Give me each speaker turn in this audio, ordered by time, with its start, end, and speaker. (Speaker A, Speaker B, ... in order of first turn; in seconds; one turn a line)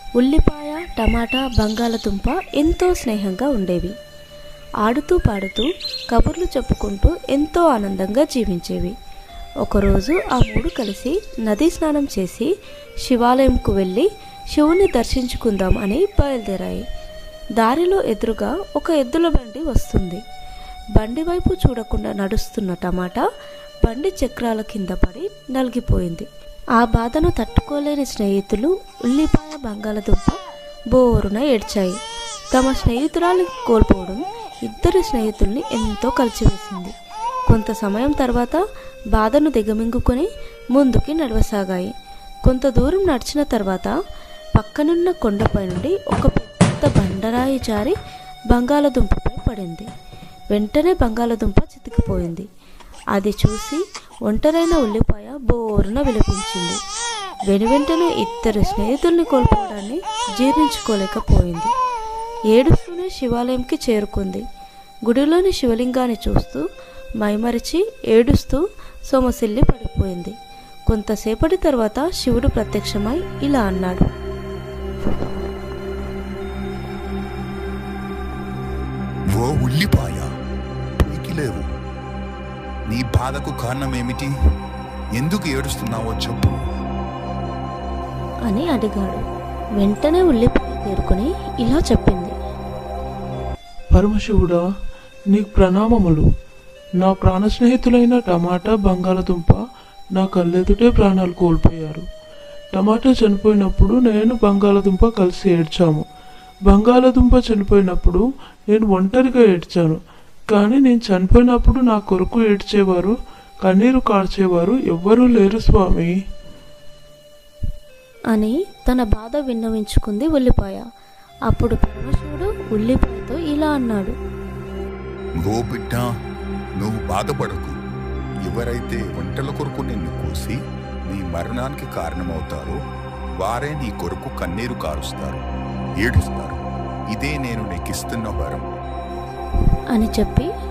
Speaker A: 0.2-3.9
Speaker A: 4.8-8.9
Speaker A: 9.6-12.5
Speaker A: 13.0-16.8
Speaker A: 17.6-20.2
Speaker A: 20.9-23.2
Speaker A: 23.8-26.3
Speaker A: 26.8-30.4
Speaker A: 30.9-31.9
Speaker A: 32.5-36.9
Speaker A: 37.5-38.6
Speaker A: 39.1-41.9
Speaker A: 42.4-43.9
Speaker A: 44.5-48.0
Speaker A: 48.5-49.9
Speaker A: 50.5-52.5
Speaker A: 53.1-56.8
Speaker A: 57.5-61.7
Speaker A: 62.5-64.4
Speaker A: 65.1-66.6
Speaker A: 67.2-70.3
Speaker A: 70.9-74.1
Speaker B: 79.3-80.3
Speaker B: 81.0-81.7
Speaker B: 82.9-84.3
Speaker B: 85.2-86.6
Speaker A: 88.5-89.2
Speaker A: 89.8-92.3
Speaker C: 93.9-94.6
Speaker C: 95.3-96.3
Speaker C: 97.0-99.6
Speaker C: 100.2-102.0
Speaker C: 102.7-106.0
Speaker C: 106.7-110.0
Speaker C: 110.5-116.1
Speaker A: 118.3-120.8
Speaker A: 121.5-124.1
Speaker B: 125.4-126.1
Speaker B: 126.8-127.7
Speaker B: 128.4-130.6
Speaker B: 131.1-132.8
Speaker B: 133.4-135.4
Speaker B: 136.0-136.6
Speaker B: 137.1-138.7
Speaker A: 139.9-140.5